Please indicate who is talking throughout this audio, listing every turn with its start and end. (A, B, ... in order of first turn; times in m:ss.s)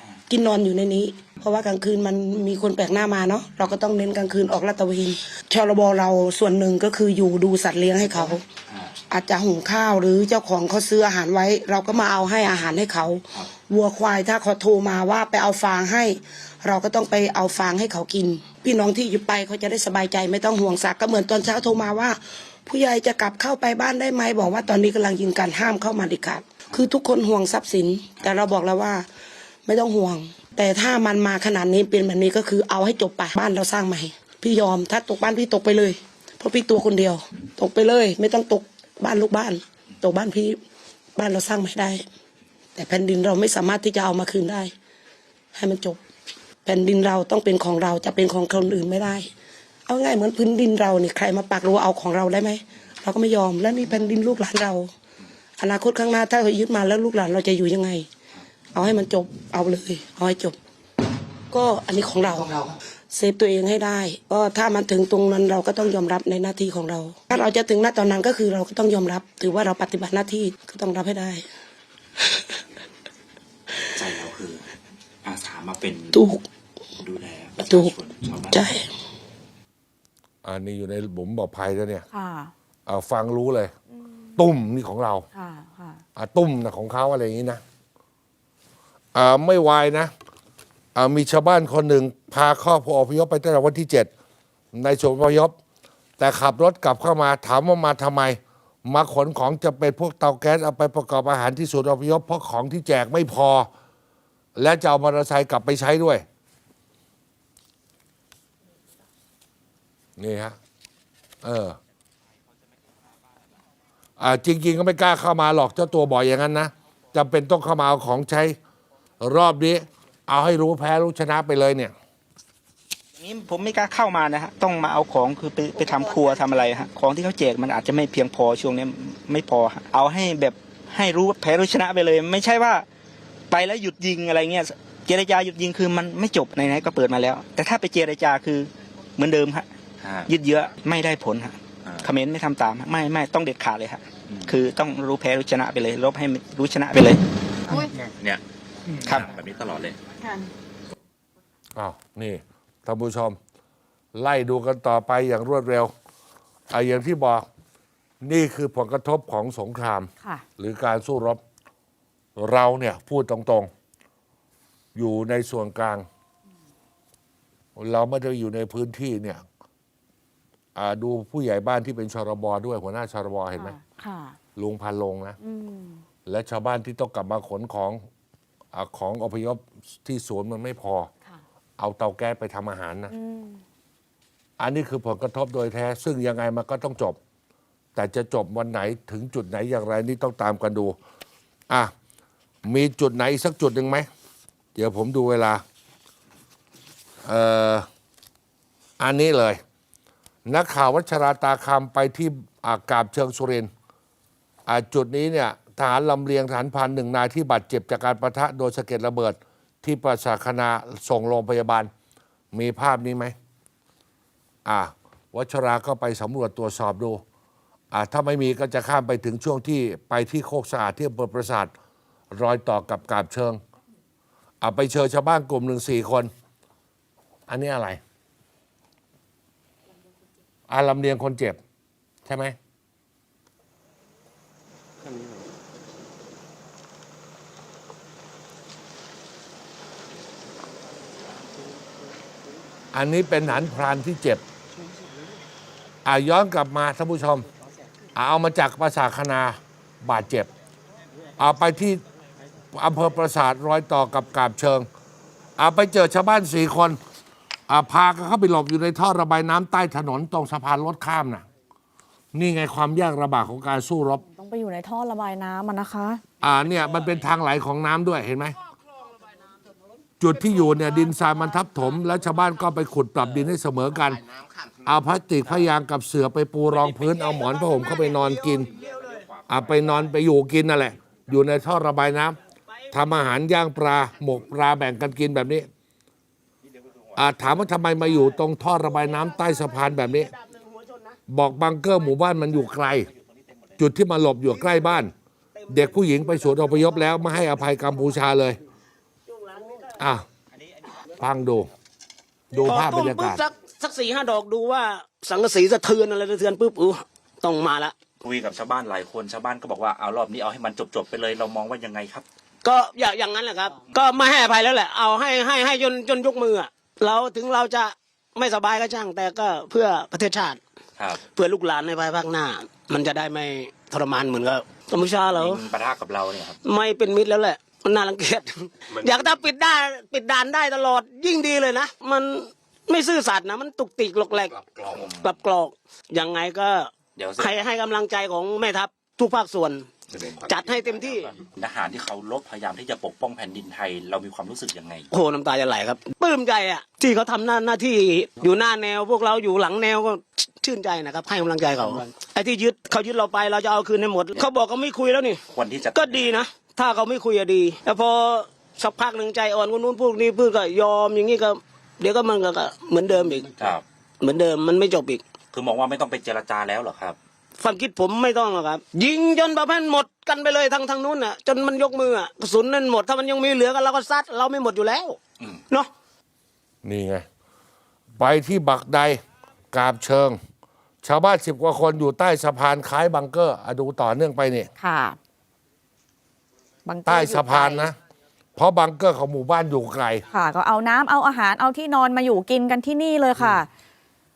0:00.3-0:08.4 A
0:08.0-0:08.9 B
0:09.1-0:29.0 A
0:29.6-0:40.6 A
0:41.2-0:42.0 A
0:42.8-0:44.7 A
0:45.5-0:46.0 A
0:46.6-0:49.3 A
0:49.9-0:54.9 A
0:55.6-0:58.1 A
0:58.7-1:00.6 A
1:01.5-1:11.4 A
1:13.9-1:14.7 B
1:15.2-1:16.2 B
1:16.1-1:16.4 A
1:17.0-1:18.7 B
1:17.6-1:17.9 A
1:18.5-1:18.9 A
1:20.4-1:22.0 C
1:22.1-1:22.5 D
1:22.9-1:23.7 C
1:24.4-1:25.2 C
1:25.3-1:26.0 D
1:26.2-1:27.6 C
1:29.1-1:30.1 C
1:30.9-1:34.1 C
1:34.7-1:35.5 C
1:36.2-1:43.7 C
1:44.6-1:46.2 C
1:50.2-1:50.6 C
1:51.4-1:51.8 C
1:54.2-1:58.6 C
1:59.2-2:01.9 C
2:03.2-2:12.9 E
2:13.5-2:19.7 E
2:20.0-2:20.3 B
2:20.3-2:27.2 E
2:21.8-2:22.1 B
2:24.3-2:24.5 B
2:27.7-2:28.4 B
2:29.0-2:30.0 B
2:31.8-2:33.4 C
2:34.1-2:35.9 C
2:36.7-2:37.4 C
2:38.2-2:41.4 C
2:42.4-2:43.7 C
2:44.9-2:46.0 C
2:47.8-2:49.4 C
2:50.8-2:53.7 C
2:53.6-2:54.4 D
2:54.6-2:55.4 C
2:55.4-2:56.0 D
2:56.2-2:58.0 C
2:58.7-3:01.1 C
3:01.8-3:03.1 C
3:03.1-3:03.6 D
3:04.6-3:07.2 C
3:08.0-3:11.0 C
3:12.7-3:14.1 C
3:14.8-3:15.6 C
3:17.2-3:17.9 C
3:19.0-3:19.6 C
3:20.4-3:23.7 C
3:24.7-3:31.9 C
3:32.5-3:33.3 C
3:34.6-3:37.2 C
3:37.9-3:41.7 C
3:42.3-3:43.6 C
3:44.6-3:46.3 C
3:47.5-3:48.0 C
3:50.7-3:51.6 C
3:52.2-3:52.6 C
4:02.9-4:04.4 C
4:06.0-4:07.4 C
4:08.2-4:10.5 C
4:11.4-4:12.0 C
4:12.7-4:14.9 C
4:15.6-4:17.0 C
4:17.7-4:21.4 C
4:22.3-4:24.2 C
4:24.3-4:26.2 D
4:26.4-4:28.6 C
4:30.2-4:34.2 C
4:34.8-4:38.7 C
4:39.5-4:42.4 C
4:42.9-4:45.7 C
4:47.2-4:50.3 C
4:51.3-4:53.1 C
4:53.8-4:55.1 C
4:55.7-4:58.6 C
5:00.0-5:00.2 C
5:01.2-5:01.7 C
5:02.5-5:03.4 C
5:02.5-5:07.9 F
5:08.2-5:12.2 B
5:12.6-5:20.6 F
5:21.0-5:21.2 B
5:21.3-5:25.6 F
5:25.3-5:26.6 B
5:26.6-5:34.6 F
5:34.7-5:35.4 B
5:35.1-5:39.9 F
5:37.2-5:37.6 B
5:40.1-5:45.1 B
5:40.4-5:41.3 F
5:45.1-5:55.4 F
5:55.5-5:56.4 B
5:55.9-6:03.5 F
6:03.6-6:03.8 B
6:04.2-6:05.2 F
6:05.5-6:07.2 B
6:07.6-6:15.2 F
6:16.8-6:17.2 C
6:18.2-6:19.2 C
6:19.7-6:20.4 C
6:21.0-6:24.7 C
6:24.8-6:25.2 D
6:26.8-6:27.9 D
6:27.0-6:28.0 C
6:28.6-6:30.2 C
6:30.3-6:33.7 D